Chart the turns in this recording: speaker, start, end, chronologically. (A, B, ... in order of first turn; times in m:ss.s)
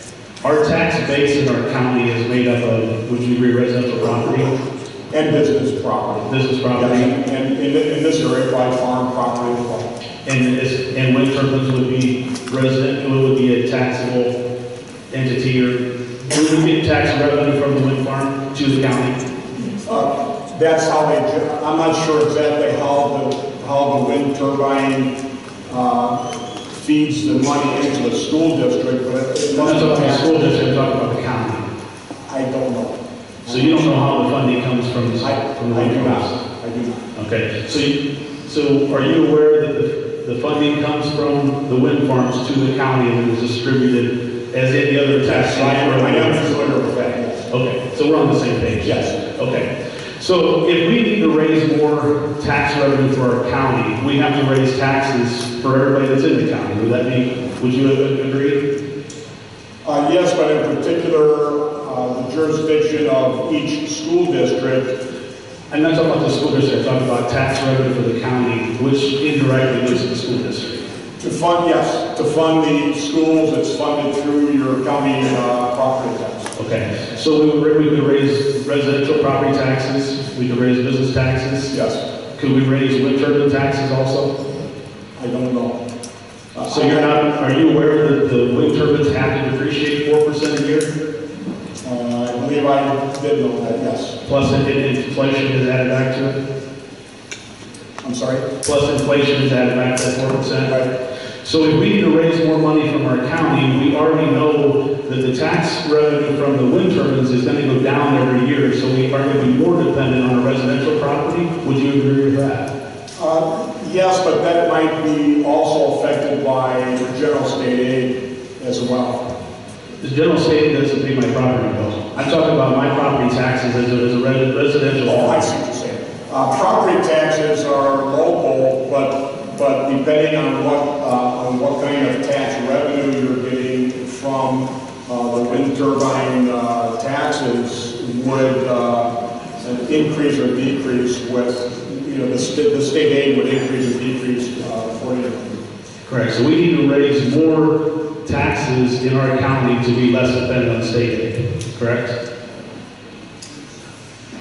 0:00.4-0:04.5 A
0:05.1-0:09.9 B
0:06.3-0:07.1 A
0:10.2-0:14.3 A
0:15.1-0:19.2 A
0:19.8-0:25.1 B
0:25.7-0:26.2 B
0:26.7-0:30.2 B
0:29.6-0:31.7 A
0:32.3-0:34.2 B
0:33.5-0:36.3 A
0:35.2-0:37.0 B
0:37.1-0:46.6 A
0:45.2-0:47.5 B
0:47.5-0:58.6 A
0:48.8-0:49.2 B
0:59.8-1:04.9 B
1:05.7-1:10.8 A
1:11.2-1:16.5 B
1:16.6-1:21.8 A
1:21.7-1:22.0 B
1:22.4-1:24.3 A
1:25.2-1:25.8 B
1:26.5-1:27.2 B
1:26.7-1:30.9 A
1:31.8-1:34.2 B
1:34.2-1:36.4 A
1:38.0-1:38.4 B
1:38.6-1:40.8 A
1:41.4-1:52.7 A
1:53.2-1:59.2 B
2:00.0-2:05.4 A
2:05.0-2:19.1 B
2:19.6-2:25.6 B
2:26.0-2:32.1 A